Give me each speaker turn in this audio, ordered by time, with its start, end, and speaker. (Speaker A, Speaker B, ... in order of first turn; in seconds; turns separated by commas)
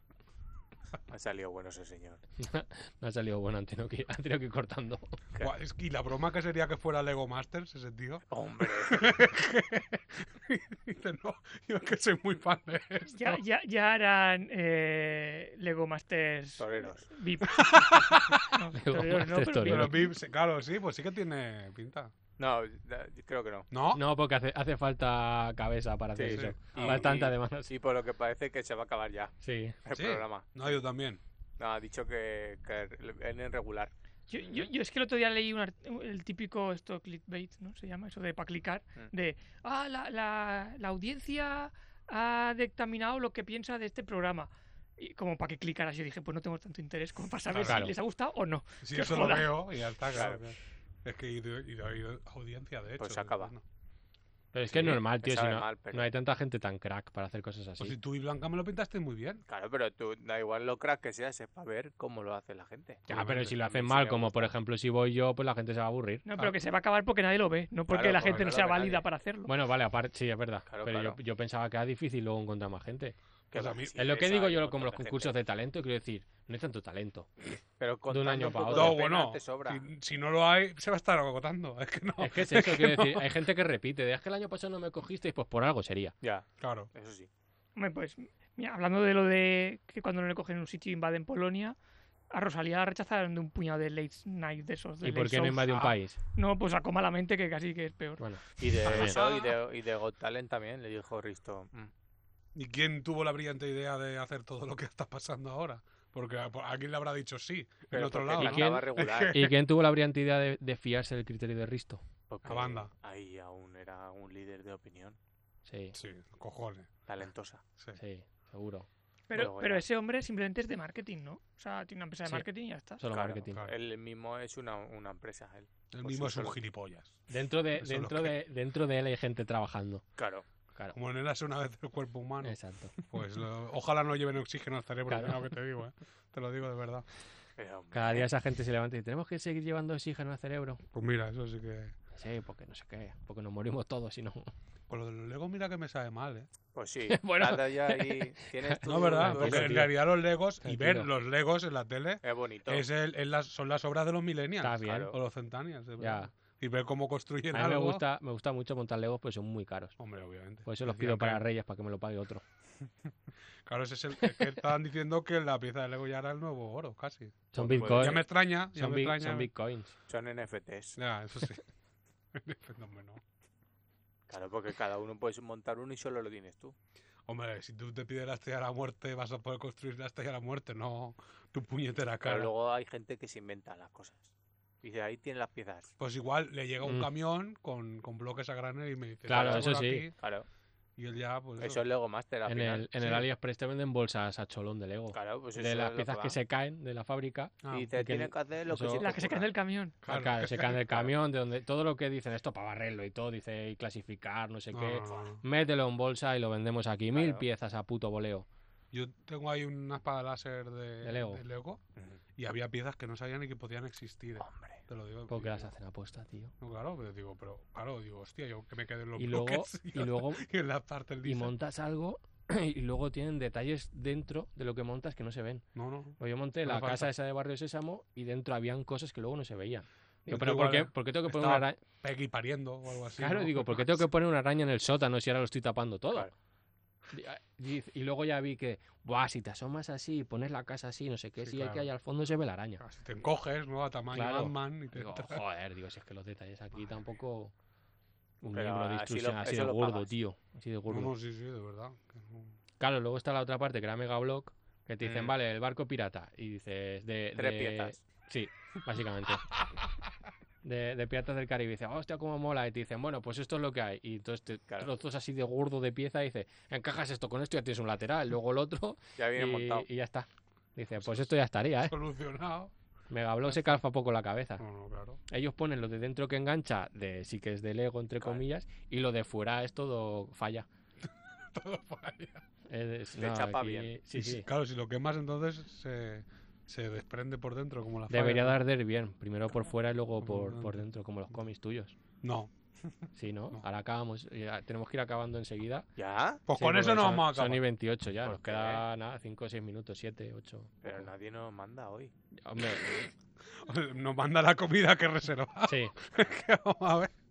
Speaker A: 1.1-2.2, Speaker B: 2.4-5.2, Speaker C: 5.4-13.4, Speaker A: 8.3-9.1, Speaker D: 13.1-20.1, Speaker A: 16.6-17.1, Speaker C: 17.5-18.4, Speaker B: 18.7-19.9, Speaker C: 19.6-22.1, Speaker A: 22.4-23.7, Speaker C: 23.7-24.0, Speaker B: 23.9-27.7, Speaker A: 26.1-29.3, Speaker C: 26.2-27.1, Speaker B: 29.4-29.7, Speaker A: 29.8-30.8, Speaker C: 29.9-31.2, Speaker A: 31.6-33.9, Speaker D: 34.3-49.5, Speaker C: 47.5-47.9, Speaker B: 47.6-47.9, Speaker C: 48.8-53.6, Speaker A: 50.1-50.4, Speaker A: 53.0-53.5, Speaker B: 54.5-58.0, Speaker A: 54.7-56.1, Speaker C: 57.8-59.4, Speaker A: 59.5-63.0, Speaker C: 63.1-63.5, Speaker B: 63.1-66.5, Speaker A: 63.6-64.5, Speaker D: 66.2-69.5, Speaker A: 67.9-69.0, Speaker C: 68.2-68.4, Speaker B: 69.5-73.2, Speaker A: 70.7-71.2, Speaker C: 73.5-74.1, Speaker A: 73.5-75.4, Speaker B: 74.0-77.3, Speaker A: 77.8-79.8, Speaker B: 78.1-79.0, Speaker C: 78.7-83.3, Speaker B: 82.2-86.1, Speaker A: 86.2-87.3, Speaker C: 86.6-86.9, Speaker D: 87.8-91.8, Speaker D: 92.3-98.2, Speaker B: 95.0-96.2, Speaker B: 98.2-99.2, Speaker A: 98.6-101.9, Speaker C: 98.9-99.6, Speaker C: 102.5-109.5, Speaker A: 107.9-109.5, Speaker B: 108.4-112.0, Speaker A: 112.3-115.2, Speaker C: 112.4-112.9, Speaker B: 115.7-116.0, Speaker C: 115.9-116.9, Speaker A: 117.0-117.6, Speaker B: 118.0-118.9, Speaker D: 119.3-123.0, Speaker A: 119.3-119.8, Speaker B: 123.0-123.6, Speaker A: 123.1-126.6, Speaker C: 125.9-127.2, Speaker B: 127.3-130.0, Speaker C: 127.8-128.3, Speaker A: 130.2-130.4, Speaker C: 130.9-137.1, Speaker B: 132.4-132.9, Speaker B: 135.1-135.4, Speaker A: 137.6-138.3, Speaker B: 137.9-140.8, Speaker C: 140.9-141.9, Speaker B: 142.1-144.5, Speaker C: 144.9-146.5, Speaker A: 146.7-149.8, Speaker B: 147.1-149.9, Speaker C: 148.8-158.0, Speaker B: 150.6-151.1, Speaker A: 152.2-152.8, Speaker B: 154.6-155.1, Speaker A: 154.8-155.1, Speaker B: 156.0-156.3, Speaker B: 157.5-159.9, Speaker C: 160.0-161.4, Speaker B: 160.7-162.4, Speaker C: 163.7-169.5, Speaker B: 164.2-164.5, Speaker B: 167.5-169.9, Speaker A: 167.7-168.2, Speaker A: 170.1-171.0, Speaker C: 171.0-171.6, Speaker C: 172.3-173.2, Speaker A: 174.3-176.7, Speaker C: 177.3-182.5, Speaker A: 182.2-185.9, Speaker C: 186.0-190.1, Speaker B: 186.8-187.1, Speaker B: 189.3-190.1, Speaker A: 189.3-189.7, Speaker A: 190.2-190.5, Speaker C: 191.0-191.8, Speaker A: 191.6-192.9, Speaker B: 192.4-199.1, Speaker C: 193.0-193.2, Speaker A: 195.1-196.4, Speaker C: 197.6-197.9, Speaker A: 197.7-199.5, Speaker D: 199.0-199.9, Speaker C: 200.0-200.9, Speaker B: 200.1-208.4, Speaker C: 204.7-205.4, Speaker A: 207.1-207.4, Speaker C: 208.9-211.8, Speaker B: 211.0-211.4, Speaker C: 212.4-215.7, Speaker A: 214.4-214.8, Speaker B: 215.3-216.5, Speaker C: 216.6-221.5, Speaker B: 219.2-220.4, Speaker B: 221.2-225.6, Speaker C: 225.7-227.1, Speaker B: 226.2-231.8, Speaker C: 230.3-234.1, Speaker B: 233.2-236.3, Speaker B: 237.1-242.8, Speaker C: 241.4-241.9, Speaker C: 242.8-245.4, Speaker B: 244.1-247.5, Speaker B: 248.4-251.1, Speaker A: 248.5-250.1, Speaker C: 250.9-252.6, Speaker B: 252.8-259.5, Speaker A: 255.0-255.3, Speaker A: 257.4-258.0, Speaker B: 260.6-271.9, Speaker A: 269.2-269.9, Speaker C: 271.0-272.7, Speaker B: 273.1-274.6, Speaker C: 274.6-275.2, Speaker B: 275.3-280.7, Speaker C: 281.0-282.4, Speaker B: 282.7-284.5, Speaker A: 283.2-283.9, Speaker C: 284.1-288.6, Speaker B: 288.1-291.9, Speaker C: 290.2-290.8, Speaker C: 292.2-292.5, Speaker B: 293.1-295.9, Speaker A: 296.0-296.4, Speaker C: 296.5-297.6, Speaker B: 296.5-301.1, Speaker A: 298.2-298.8, Speaker A: 300.8-302.1, Speaker B: 302.4-303.1, Speaker C: 302.8-307.1, Speaker B: 305.7-305.9